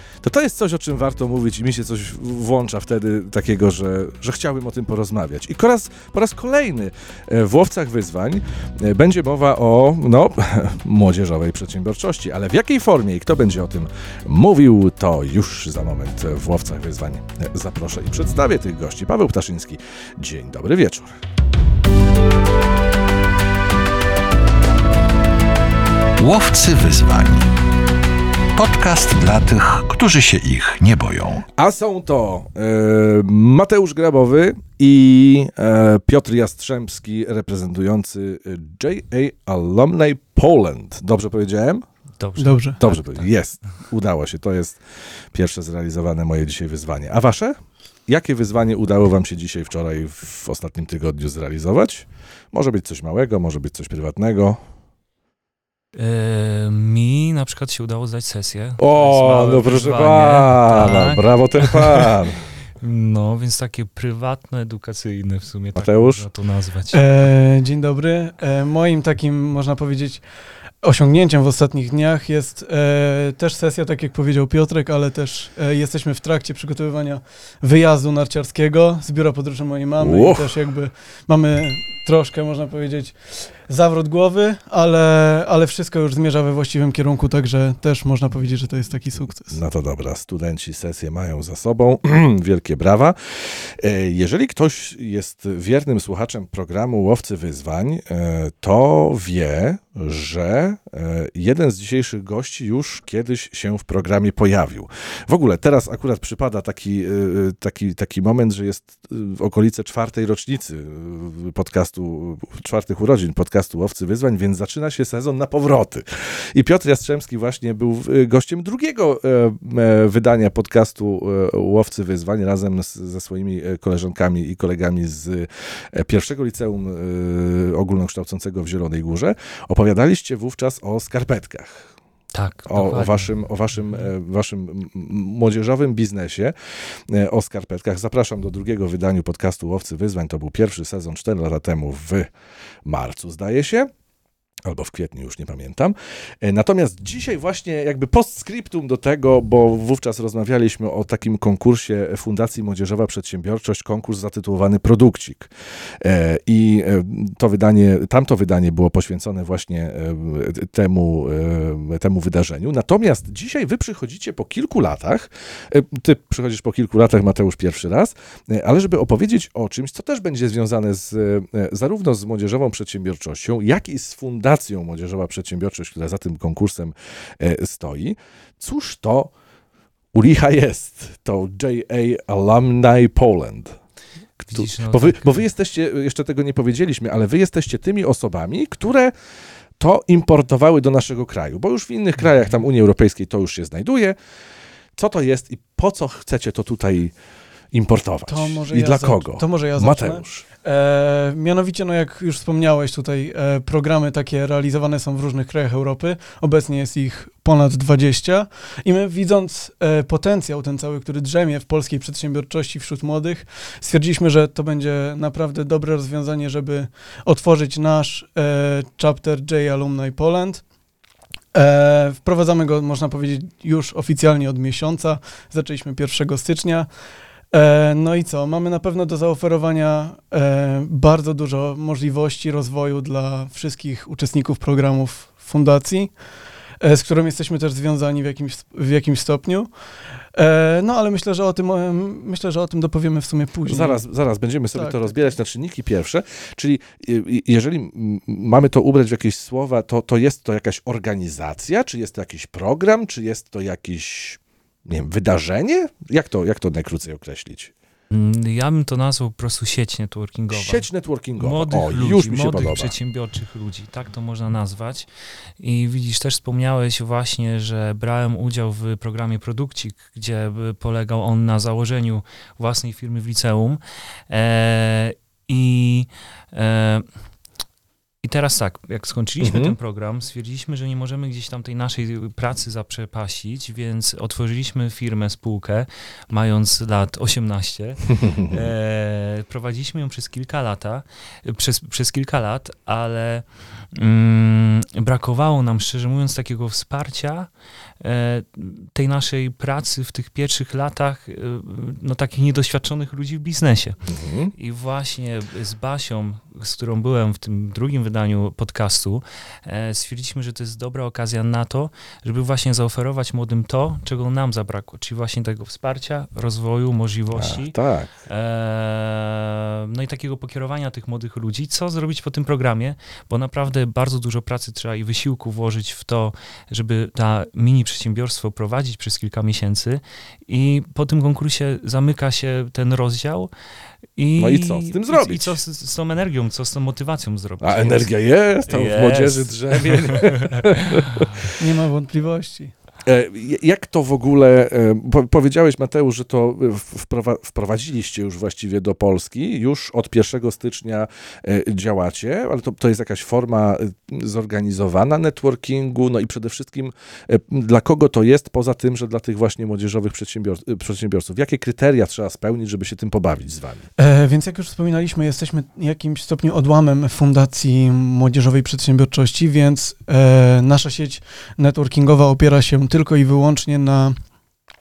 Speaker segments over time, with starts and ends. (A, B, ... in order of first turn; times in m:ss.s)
0:00.2-0:21.2 A
0:26.2-0:27.5 B
0:28.5-0:31.4 B
0:31.5-0:41.8 A
0:42.2-0:43.3 C
0:42.4-0:42.8 D
0:42.8-0:44.8 A
0:45.3-0:54.6 A
0:55.9-1:02.1 C
0:58.8-1:02.4 A
1:02.8-1:07.0 C
1:05.7-1:06.2 A
1:06.9-1:10.2 D
1:10.8-1:29.6 D
1:20.0-1:20.6 A
1:29.5-2:11.9 A
2:12.3-2:13.3 C
2:12.7-2:22.3 A
2:22.8-2:23.9 A
2:24.6-2:59.3 A
3:00.1-3:03.8 A
3:04.4-3:09.1 A
3:04.5-3:05.4 C
3:09.8-3:14.1 A
3:15.0-3:17.1 A
3:17.7-3:20.4 A
3:18.3-3:40.6 D
3:41.5-3:46.9 D
3:47.5-3:56.1 D
3:56.8-3:59.7 D
4:00.3-4:04.0 D
4:03.7-4:17.7 A
4:04.7-4:05.1 D
4:18.1-4:25.1 C
4:20.5-4:22.9 A
4:25.6-4:37.1 C
4:38.2-4:57.5 C
4:39.4-4:39.7 A
4:48.1-4:48.6 A
4:58.0-5:04.0 C
5:04.1-5:04.5 A
5:04.6-5:33.5 C
5:17.3-5:18.1 A
5:34.2-5:38.1 C
5:34.4-5:35.6 A
5:37.6-5:41.5 A
5:38.7-5:41.2 C
5:41.6-5:42.7 D
5:43.0-6:03.9 A
6:04.0-6:14.2 D